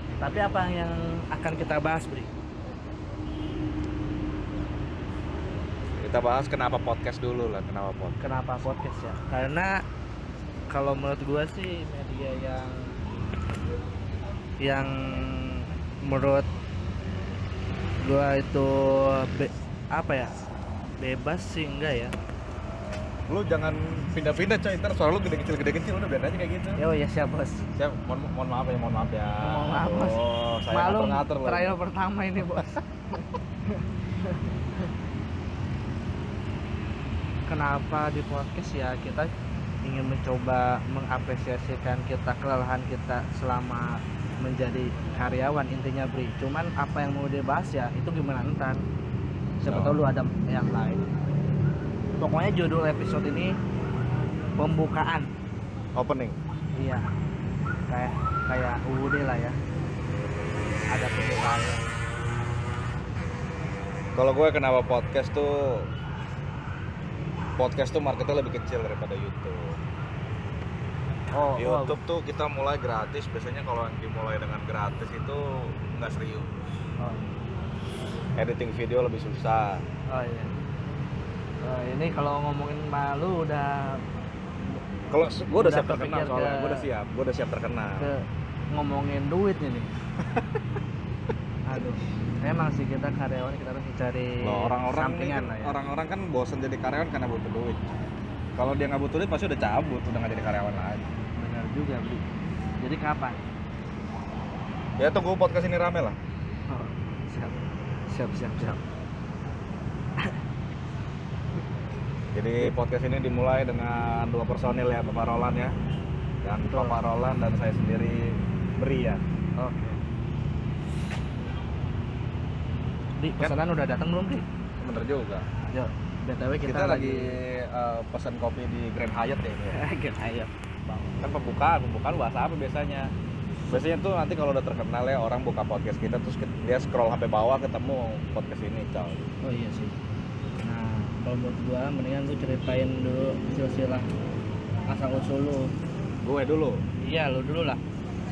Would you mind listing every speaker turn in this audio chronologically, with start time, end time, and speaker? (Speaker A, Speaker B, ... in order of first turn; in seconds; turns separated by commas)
Speaker A: 0.2-2.3, Speaker B: 6.0-8.2, Speaker A: 8.2-9.8, Speaker A: 10.7-12.9, Speaker A: 14.6-16.5, Speaker A: 18.0-20.3, Speaker A: 21.0-22.1, Speaker B: 23.3-26.8, Speaker A: 26.8-27.6, Speaker B: 27.8-31.8, Speaker A: 29.4-30.2, Speaker A: 30.7-34.9, Speaker A: 37.5-39.3, Speaker A: 39.8-48.8, Speaker A: 49.6-51.0, Speaker B: 49.7-50.0, Speaker A: 52.2-53.5, Speaker A: 54.6-55.3, Speaker B: 55.9-56.4, Speaker A: 56.7-57.1, Speaker A: 57.9-59.6, Speaker A: 60.9-61.8, Speaker B: 64.1-65.9, Speaker B: 67.6-69.8, Speaker A: 71.3-72.0, Speaker B: 71.6-76.6, Speaker A: 77.0-77.2, Speaker B: 78.4-79.8, Speaker A: 80.1-80.5, Speaker A: 81.6-84.0, Speaker B: 85.1-88.1, Speaker A: 85.5-86.9, Speaker A: 88.0-89.9, Speaker A: 91.7-95.8, Speaker B: 94.4-97.8, Speaker B: 98.6-101.1, Speaker A: 101.4-102.2, Speaker A: 102.8-103.4, Speaker B: 105.0-106.2, Speaker A: 106.7-107.6, Speaker A: 108.1-108.8, Speaker B: 112.3-115.7, Speaker B: 116.4-119.2, Speaker A: 116.7-117.0, Speaker A: 119.6-120.0, Speaker A: 123.2-124.5, Speaker B: 124.8-125.5, Speaker A: 125.7-127.4, Speaker B: 126.6-129.8, Speaker A: 129.7-130.5, Speaker B: 130.9-133.1, Speaker B: 133.7-139.3, Speaker A: 139.4-139.9, Speaker A: 140.6-144.1, Speaker A: 144.9-145.7, Speaker B: 146.2-146.8, Speaker A: 147.0-147.8